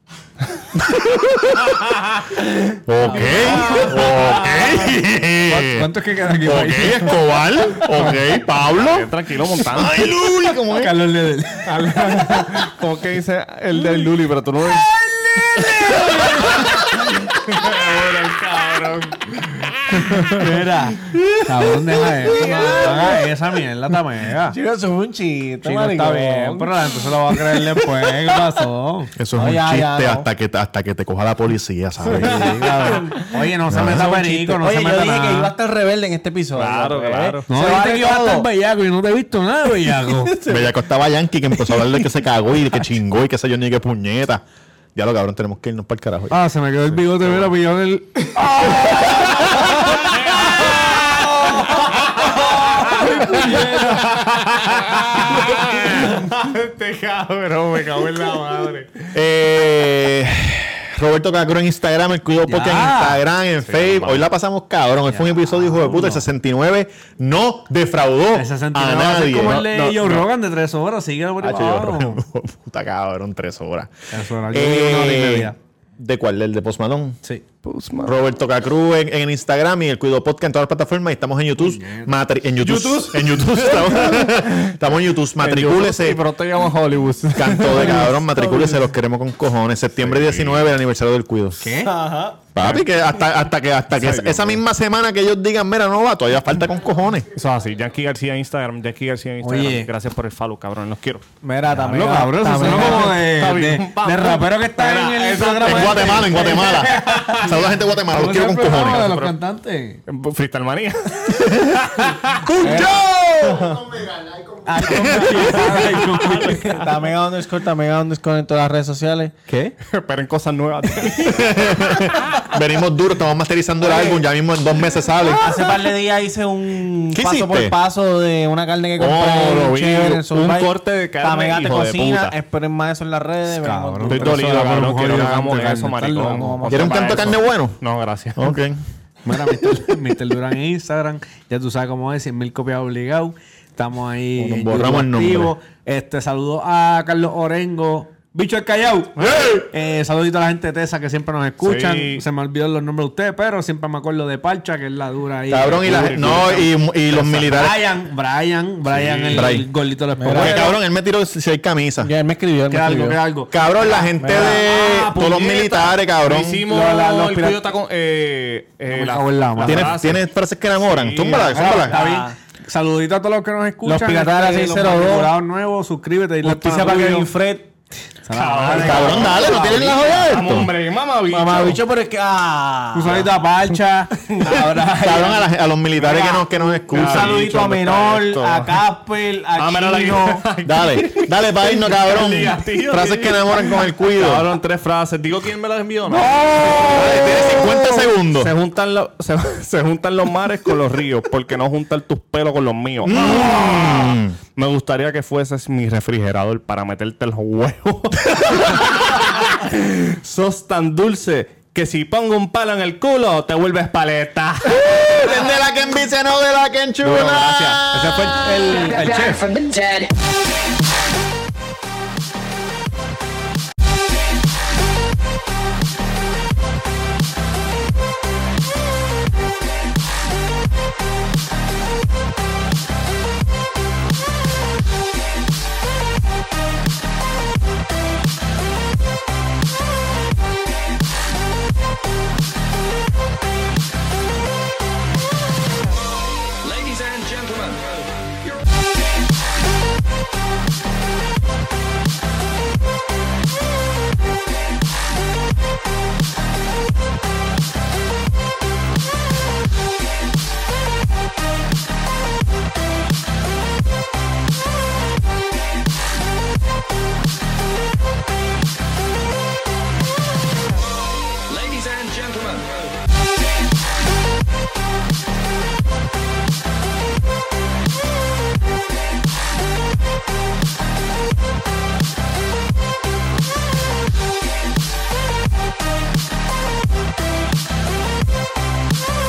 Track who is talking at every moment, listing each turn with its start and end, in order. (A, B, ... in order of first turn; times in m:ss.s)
0:00.8-0:01.8 A
0:02.7-0:05.9 A
0:03.1-0:04.8 B
0:05.5-0:07.3 C
0:06.4-0:11.0 A
0:07.9-0:08.2 C
0:08.7-0:10.1 B
0:10.7-0:12.2 C
0:11.7-0:14.9 B
0:15.4-0:16.9 A
0:16.0-0:20.4 B
0:20.3-0:21.0 D
0:21.5-0:24.6 C
0:22.3-0:23.1 D
0:24.5-0:26.7 D
0:25.6-0:29.1 C
0:29.1-0:32.7 A
0:29.4-0:30.3 D
0:32.1-0:35.5 C
0:32.8-0:33.1 D
0:33.7-0:34.1 A
0:34.0-0:38.5 D
0:36.6-0:37.5 B
0:37.5-0:40.6 C
0:40.5-0:44.4 A
0:44.9-0:47.5 A
0:46.3-0:48.3 C
0:48.7-0:49.7 A
0:48.9-0:49.2 B
0:50.0-0:59.1 B
0:52.9-0:54.1 C
0:55.2-0:55.8 A
0:59.1-1:10.2 A
1:02.4-1:03.2 C
1:03.6-1:04.3 B
1:05.1-1:06.2 C
1:08.3-1:12.2 C
1:09.5-1:10.1 B
1:11.4-1:13.9 A
1:14.1-1:15.6 C
1:14.5-1:17.2 A
1:17.6-1:18.1 B
1:18.0-1:26.2 A
1:21.6-1:22.1 C
1:22.6-1:24.7 B
1:25.4-1:28.0 B
1:27.3-1:31.7 A
1:27.9-1:28.8 D
1:30.0-1:30.7 B
1:31.6-1:31.9 C
1:31.8-1:32.4 D
1:32.5-1:37.3 A
1:32.6-1:32.9 B
1:33.9-1:34.6 B
1:37.3-1:41.2 B
1:39.4-1:39.9 C
1:41.4-1:43.2 D
1:41.8-1:50.0 C
1:42.6-1:47.5 B
1:45.6-1:49.1 A
1:48.7-1:49.4 B
1:50.1-1:53.9 B
1:52.5-1:53.9 A
1:52.6-1:53.0 D
1:54.6-1:57.0 C
1:54.8-1:55.3 A
1:55.2-1:56.8 B
1:56.7-1:59.4 D
1:59.8-2:02.3 B
2:01.2-2:05.9 A
2:03.8-2:04.2 D
2:05.4-2:14.4 D
2:07.1-2:07.8 A
2:09.0-2:09.9 A
2:09.1-2:12.3 B
2:13.5-2:16.7 C
2:14.1-2:18.6 B
2:16.3-2:17.3 D
2:16.7-2:17.8 A
2:18.4-2:18.8 A
2:19.2-2:29.1 C
2:24.4-2:25.5 A
2:29.2-2:29.6 A
2:29.7-2:40.8 C
2:31.6-2:32.2 B
2:35.5-2:37.9 A
2:38.9-2:39.6 B
2:39.3-2:39.7 A
2:40.1-2:40.6 D
2:40.2-2:42.1 A
2:42.0-2:43.2 D
2:42.7-2:45.9 C
2:43.5-2:46.6 A
2:44.2-2:44.6 D
2:45.4-2:50.2 B
2:46.7-2:47.6 C
2:48.9-2:50.0 C
2:49.6-2:52.0 A
2:50.8-2:51.6 B
2:51.2-2:57.3 C
2:51.6-2:52.4 D
2:53.8-2:55.3 D
2:56.4-2:57.7 D
2:58.2-2:59.8 C
2:58.3-3:01.8 B
2:58.7-3:00.7 A
2:59.1-2:59.9 D
3:01.3-3:03.3 D
3:02.9-3:05.5 C
3:04.4-3:04.8 D
3:04.4-3:07.8 A
3:06.0-3:10.4 D
3:06.9-3:08.8 B
3:09.5-3:34.9 B
3:10.6-3:14.5 A
3:16.1-3:18.5 A
3:23.0-3:24.4 A
3:34.6-3:38.5 A
3:37.0-3:37.9 B
3:37.9-3:39.4 C
3:38.6-3:40.1 E
4:06.6-4:08.6 E
4:31.4-4:33.0 E